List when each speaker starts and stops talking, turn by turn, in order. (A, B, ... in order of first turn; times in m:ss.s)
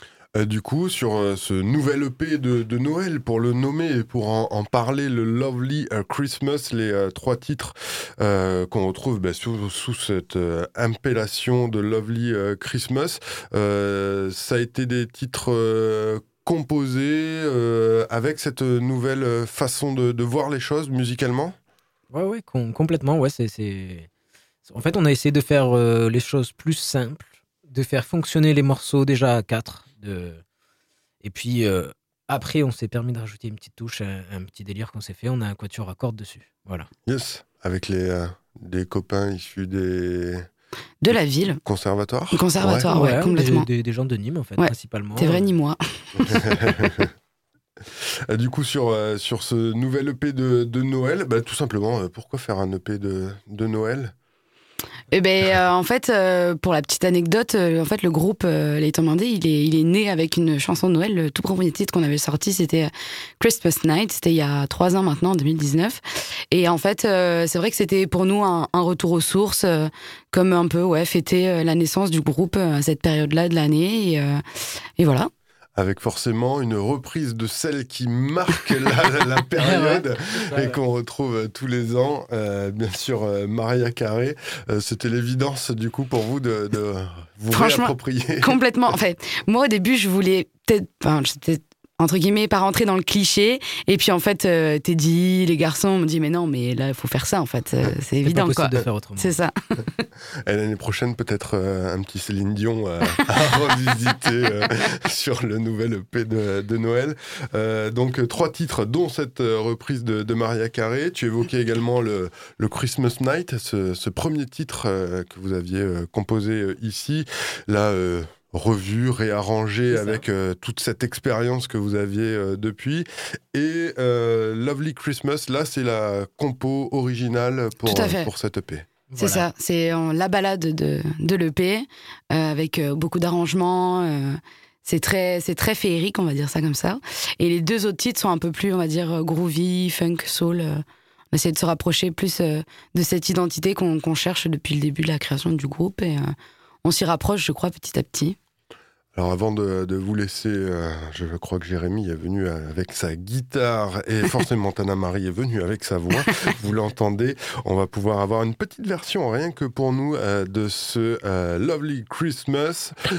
0:00.3-0:21.6 A
0:22.1-0:24.1 B
0:24.6-0:30.4 B
0:31.2-0:36.9 B
0:37.0-0:40.4 A
0:41.0-0:41.6 C
0:41.6-0:42.9 A
0:42.3-0:43.7 C
0:42.9-0:45.4 B
0:44.6-0:46.5 C
0:46.2-0:47.1 A
0:48.3-0:54.1 A
0:55.1-1:14.4 C
1:15.0-1:15.3 C
1:15.8-1:28.6 A
1:19.6-1:20.8 B
1:27.5-1:40.0 C
1:38.2-1:39.4 B
1:40.4-2:08.9 A
1:59.9-2:00.2 B
2:07.8-2:08.3 C
2:09.1-2:09.5 B
2:09.2-2:26.3 C
2:26.8-2:28.4 C
2:29.1-2:43.0 A